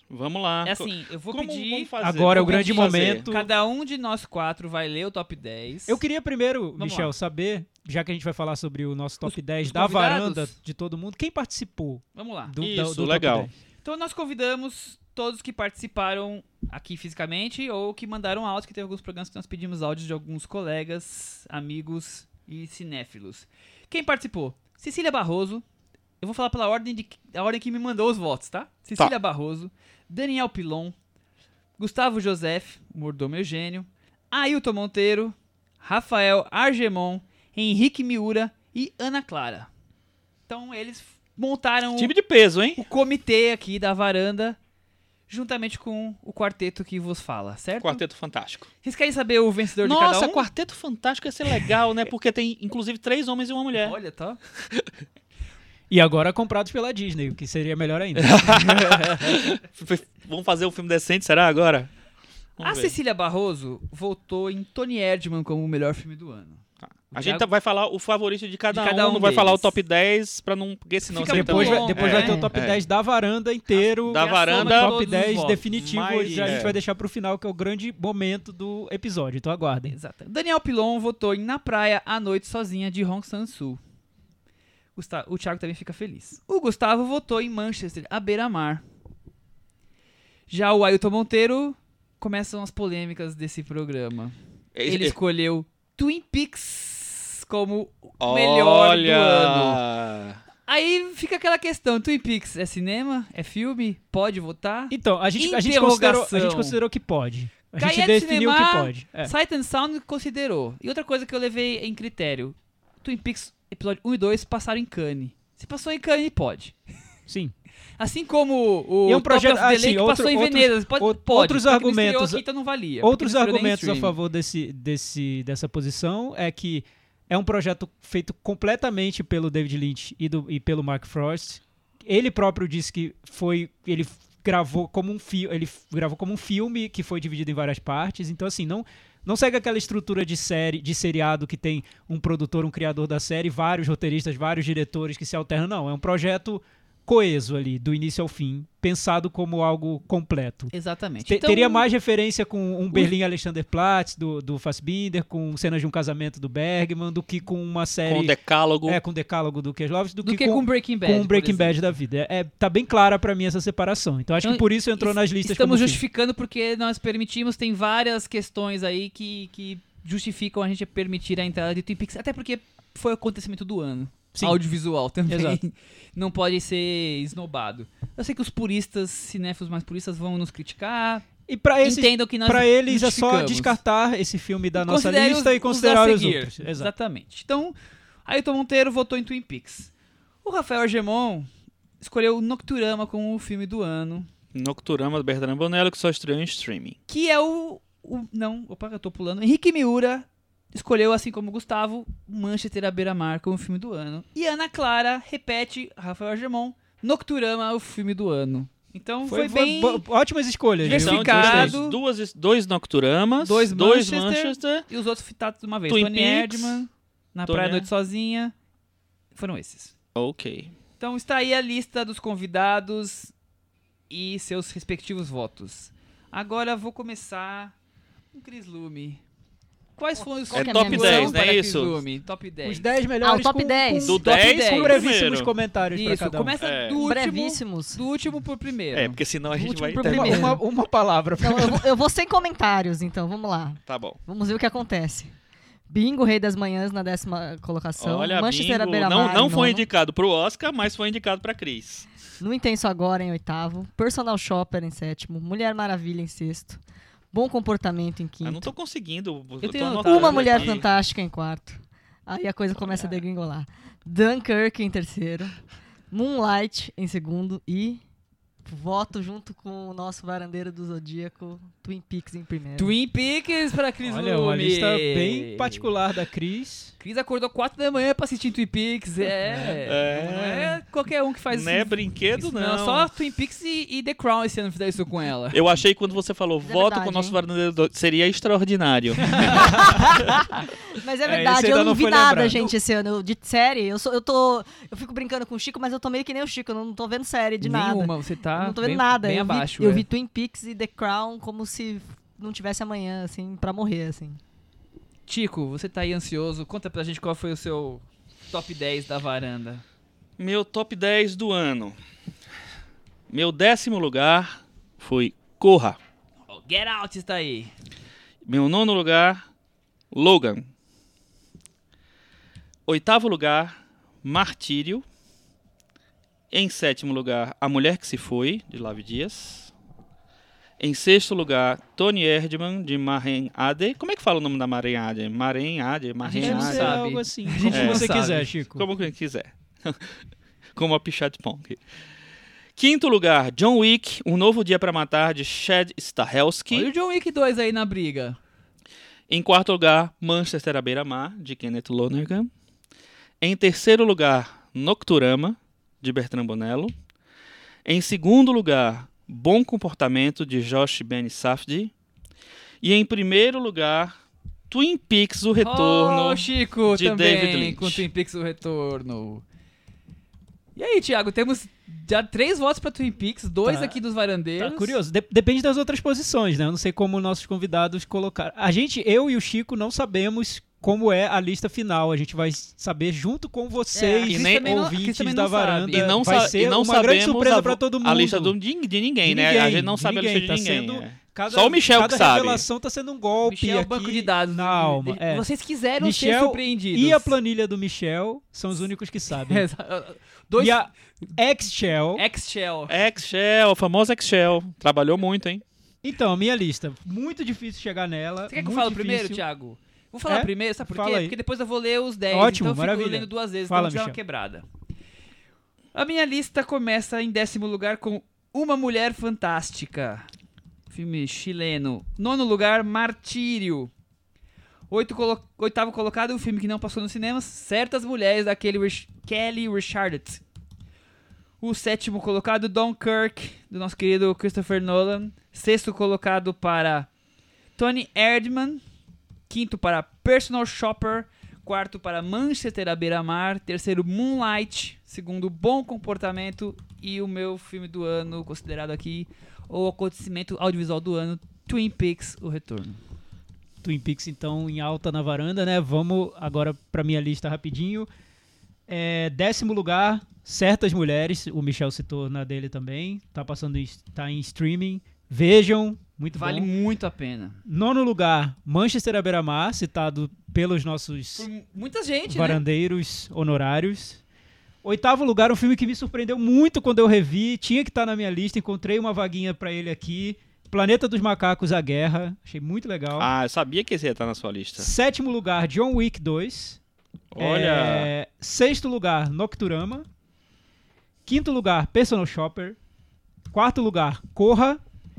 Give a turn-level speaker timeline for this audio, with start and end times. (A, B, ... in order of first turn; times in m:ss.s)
0:00.1-0:03.3 A
0:00.6-0:06.0 B
0:02.0-0:03.5 C
0:05.9-0:13.6 C
0:06.8-0:07.1 B
0:09.2-0:10.5 B
0:12.2-0:12.6 B
0:12.6-0:13.5 A
0:13.8-0:25.6 B
0:26.2-0:31.0 B
0:31.8-0:39.7 B
0:40.5-0:42.1 B
0:42.0-0:42.8 A
0:42.8-0:44.6 B
0:45.3-0:48.0 B
0:47.8-0:48.7 A
0:48.8-0:50.5 B
0:49.8-0:54.0 A
0:53.8-0:54.4 B
0:55.9-0:59.1 C
0:58.2-1:01.9 A
1:02.6-1:02.9 A
1:02.6-1:07.5 B
1:06.8-1:12.8 A
1:08.7-1:09.7 B
1:11.1-1:12.4 B
1:11.3-1:20.0 C
1:12.1-1:12.5 D
1:13.7-1:16.7 B
1:14.1-1:15.0 A
1:15.7-1:16.8 A
1:19.9-1:23.8 B
1:25.0-1:28.8 B
1:30.5-1:39.8 B
1:34.8-1:35.2 A
1:38.2-1:40.4 A
1:40.7-1:46.8 B
1:44.9-1:49.3 C
1:47.8-1:56.8 B
1:57.3-1:57.5 C
1:58.0-2:04.2 B
1:59.1-2:02.5 C
2:03.0-2:30.7 C
2:30.7-2:31.9 B
2:31.2-2:38.3 C
2:38.0-2:39.0 A
2:38.9-2:46.0 C
2:40.2-2:41.8 B
2:44.4-3:01.3 B
2:54.3-2:54.6 C
2:55.3-2:55.6 C
3:01.5-3:06.9 C
3:01.8-3:03.8 B
3:04.8-3:07.8 B
3:08.3-3:09.9 B
3:10.4-3:11.5 B
3:12.0-3:14.3 B
3:14.5-3:17.0 A
3:17.1-3:30.0 B
3:29.3-3:31.8 C
3:30.8-3:32.0 B
3:30.8-3:34.9 A
3:33.4-3:38.5 B
3:35.9-3:36.8 A
3:37.5-3:37.9 A
3:39.4-3:39.9 B
3:40.2-3:40.7 A
3:41.0-3:43.3 B
3:44.1-3:47.8 B
3:48.3-3:49.2 B
3:50.0-3:52.9 B
3:50.5-3:52.0 A
3:50.5-3:51.4 D
3:52.6-3:56.6 C
3:53.2-3:54.2 D
3:54.0-3:55.5 A
3:54.2-3:55.0 B
3:55.9-3:59.2 B
3:56.6-3:57.0 A
3:56.9-3:58.0 D
3:58.9-4:00.6 A
3:59.5-4:00.6 D
4:00.0-4:01.9 C
4:01.4-4:05.3 D
4:03.9-4:04.2 A
4:05.9-4:09.9 D
4:08.0-4:12.1 A
4:12.4-4:16.8 D
4:17.3-4:18.7 D
4:18.4-4:20.9 A
4:19.6-4:20.8 B
4:20.0-4:25.6 D
4:26.1-4:28.0 D
4:28.7-4:32.9 D
4:32.8-4:35.9 B
4:34.0-4:36.9 C
4:37.0-4:45.6 B
4:39.8-4:40.8 A
4:41.5-4:43.1 A
4:45.5-4:49.8 A
4:46.6-4:47.4 D
4:49.3-4:50.2 C
4:49.5-5:04.4 D
4:51.2-4:52.7 C
4:57.6-5:00.1 B
5:05.3-5:09.8 B
5:10.4-5:12.0 A
5:13.3-5:16.0 A
5:16.5-5:17.7 B
5:18.4-5:19.4 A
5:20.1-5:20.7 A
5:22.9-5:25.0 A
5:26.5-5:29.7 A
5:30.8-5:37.0 A
5:36.2-5:38.5 B
5:36.4-5:38.9 C
5:37.7-5:40.2 A
5:40.8-5:41.8 A
5:42.8-5:46.9 A
5:46.7-5:48.4 B
5:49.3-5:52.5 A
5:53.4-5:56.9 A
5:57.8-6:01.9 A
6:02.8-6:04.2 A
6:04.7-6:08.0 A
6:05.6-6:09.4 B
6:10.8-6:15.0 B
6:13.6-6:14.0 C
6:14.6-6:28.6 C
6:24.0-6:26.3 B
6:24.3-6:24.9 A
6:25.9-6:32.6 A
6:29.2-6:35.5 C
6:33.4-6:37.4 B
6:36.0-6:39.7 C
6:39.4-6:41.2 B
6:40.6-6:42.2 C
6:42.2-6:43.0 B
6:42.9-6:45.6 A
6:46.0-6:49.4 C
6:48.5-6:54.6 B
6:50.3-6:51.4 C
6:52.3-6:54.2 C
6:55.9-7:00.3 B
7:00.9-7:03.9 B
7:04.9-7:10.4 B
7:11.6-7:17.1 B
7:17.8-7:18.8 B
7:19.5-7:33.0 B
7:33.8-7:38.1 C
7:38.9-7:46.7 C
7:46.3-7:47.6 B
7:47.7-7:51.5 C
7:51.4-7:52.6 B
7:52.3-7:54.2 C
7:54.8-8:03.3 C
8:03.2-8:04.9 A
8:04.8-8:06.8 C
8:07.3-8:08.1 A
8:07.4-8:10.1 C
8:11.3-8:12.8 C
8:13.5-8:14.8 C